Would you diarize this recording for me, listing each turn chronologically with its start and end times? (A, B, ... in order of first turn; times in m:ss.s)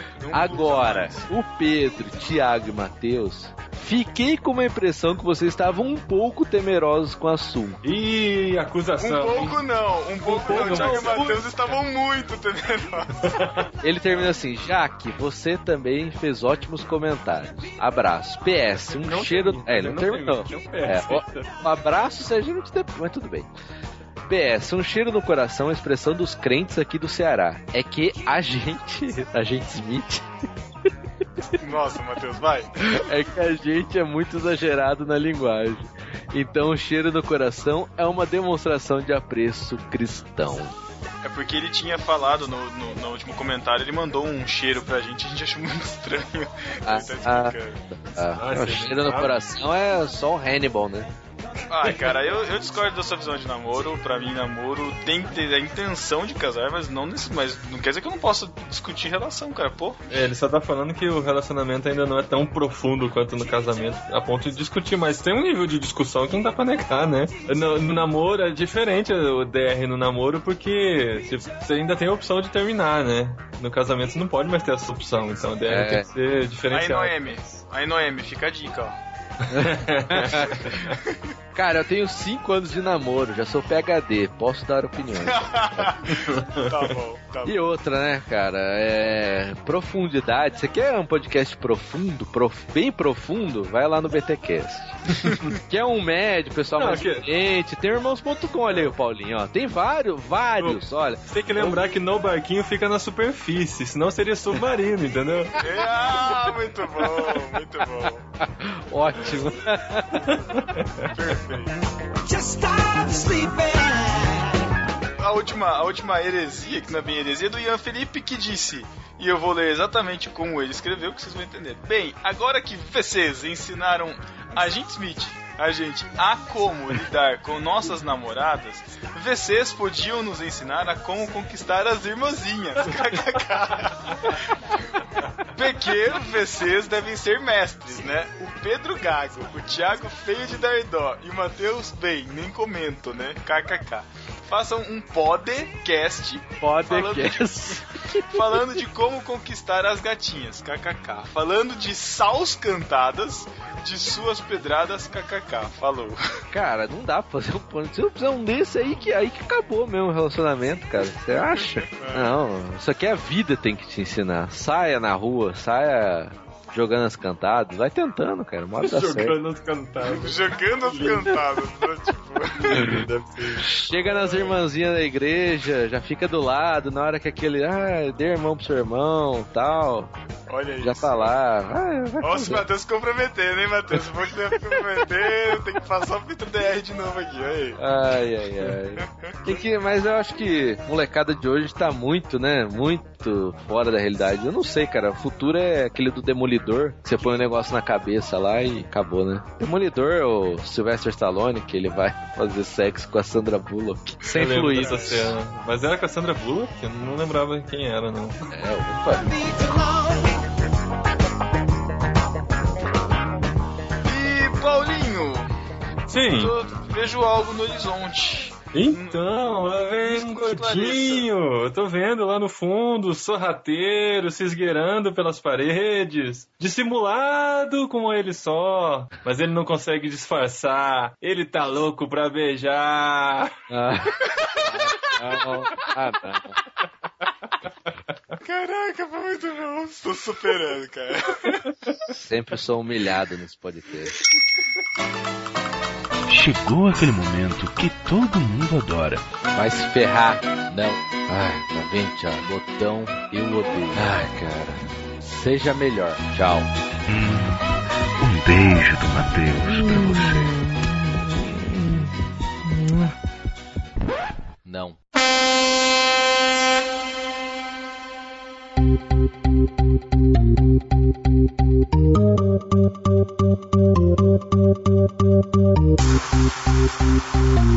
0:00.2-0:01.3 A
0:00.3-0:07.8 B
0:07.8-0:09.6 C
0:09.0-0:13.4 A
0:10.2-0:11.5 B
0:10.3-0:11.4 C
0:13.2-0:13.7 C
0:13.8-0:23.5 B
0:18.7-0:21.5 C
0:24.2-0:30.2 B
0:31.6-0:32.7 A
0:32.8-0:40.7 B
0:41.2-0:47.8 A
0:46.8-0:51.1 B
0:48.4-0:49.3 C
0:51.7-1:00.1 A
0:51.8-0:52.2 C
1:00.1-1:17.6 C
1:15.7-1:16.1 B
1:16.7-1:19.0 A
1:19.5-1:21.0 C
1:19.5-1:20.7 B
1:21.5-1:25.9 B
1:25.2-1:27.6 A
1:26.1-1:26.9 C
1:27.4-1:35.0 B
1:35.7-1:41.8 B
1:36.7-1:37.2 C
1:40.6-1:45.6 C
1:45.6-1:48.2 A
1:48.4-1:50.3 B
1:50.3-1:51.1 C
1:51.1-1:51.7 A
1:55.2-2:15.0 A
2:15.5-2:36.2 A
2:26.6-2:28.6 B
2:36.5-2:49.3 B
2:41.6-2:42.4 A
2:48.8-2:51.4 C
2:50.1-2:52.8 A
2:52.6-2:53.7 C
2:53.6-3:00.1 B
2:54.1-2:54.5 A
3:00.5-3:01.3 A
3:00.8-3:02.6 B
3:02.2-3:07.8 A
3:07.8-3:25.2 B
3:09.0-3:09.3 A
3:24.3-3:28.4 C
3:24.7-3:25.2 A
3:28.5-3:29.3 B
3:34.0-3:35.5 A
3:36.1-3:36.5 C
3:36.3-3:39.2 A
3:38.7-3:53.5 C
3:40.0-3:41.3 A
3:53.7-3:56.6 B
3:58.4-4:01.6 A
4:02.1-4:04.2 B
4:06.3-4:09.2 D
4:09.5-4:16.7 B
4:17.1-4:17.6 D
4:18.2-4:20.5 D
4:24.6-4:25.0 B